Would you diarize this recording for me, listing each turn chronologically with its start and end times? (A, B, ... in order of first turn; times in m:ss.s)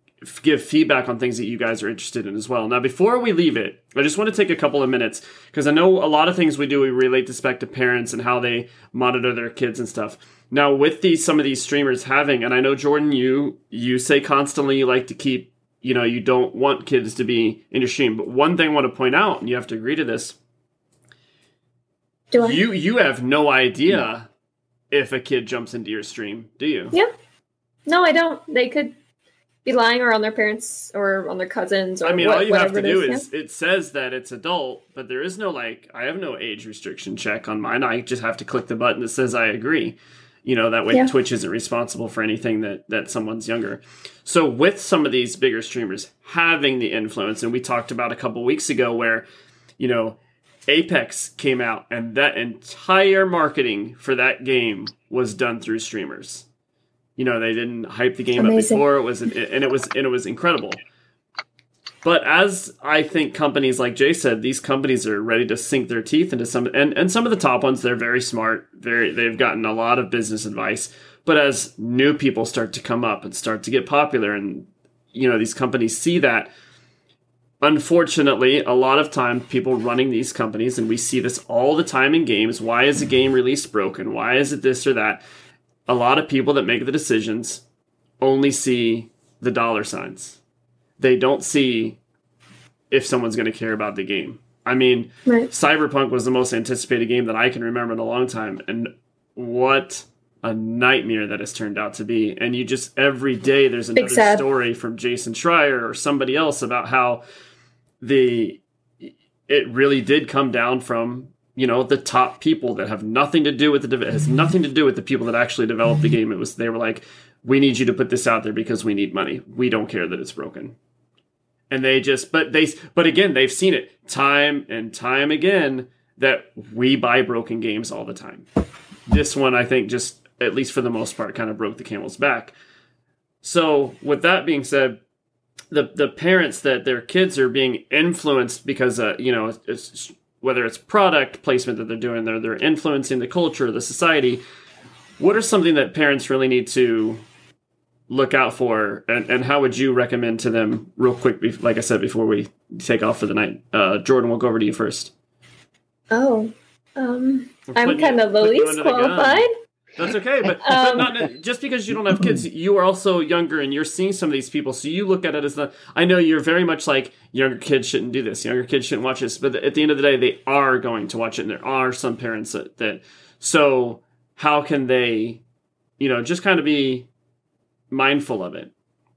0:00.2-0:20.4 A
0:22.3-0:22.6 B
0:22.3-0:24.3 A
0:24.9-0:27.0 A
0:27.9-0:28.9 B
0:29.6-0:33.2 B
0:32.0-0:49.2 A
0:49.8-0:56.4 A
0:57.2-1:00.8 A
0:58.4-0:58.8 B
1:02.0-1:16.5 A
1:17.6-1:25.2 A
1:25.9-1:27.6 A
1:28.2-1:30.4 A
1:31.0-1:32.0 A
1:32.9-1:47.2 A
1:44.0-1:44.4 B
1:48.0-2:00.8 A
2:01.7-2:08.4 A
2:09.1-2:12.5 A
2:13.4-2:15.0 A
2:15.7-2:24.4 A
2:25.2-2:27.2 A
2:28.1-2:35.1 A
2:36.1-2:39.5 B
2:37.7-2:55.4 A
2:40.6-2:41.1 B
2:56.0-2:57.1 A
2:57.9-2:58.7 A